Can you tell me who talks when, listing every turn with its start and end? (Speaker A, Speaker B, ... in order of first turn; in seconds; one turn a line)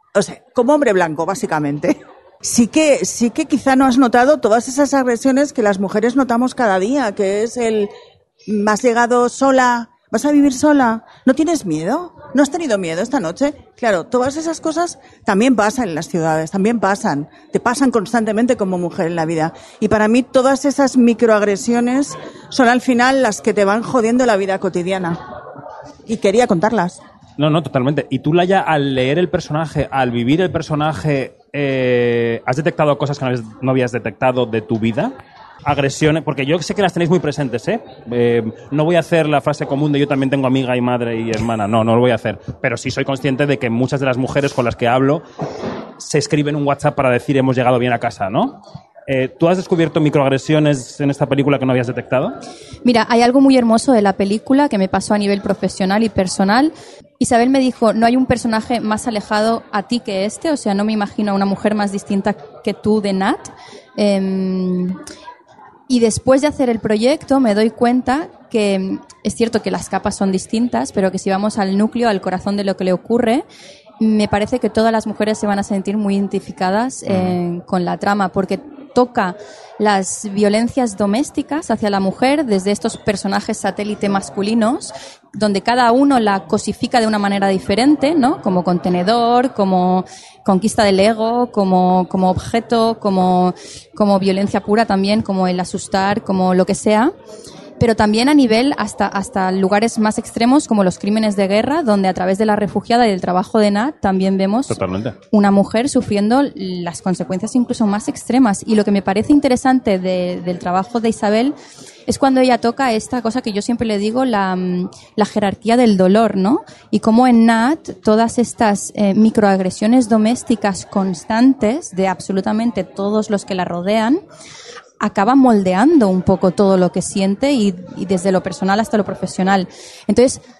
Speaker A: 0.1-7.9
Speaker A: 8.4-25.2
Speaker A: 26.1-27.0
Speaker B: 27.4-35.1
Speaker B: 35.6-45.2
Speaker B: 46.0-52.4
Speaker C: 52.8-65.0
Speaker C: 65.9-73.4
Speaker C: 74.0-97.1
Speaker B: 77.1-77.3
Speaker C: 97.8-104.8
Speaker B: 104.7-105.2
Speaker C: 105.3-111.5
Speaker C: 112.1-124.2
Speaker C: 125.0-130.4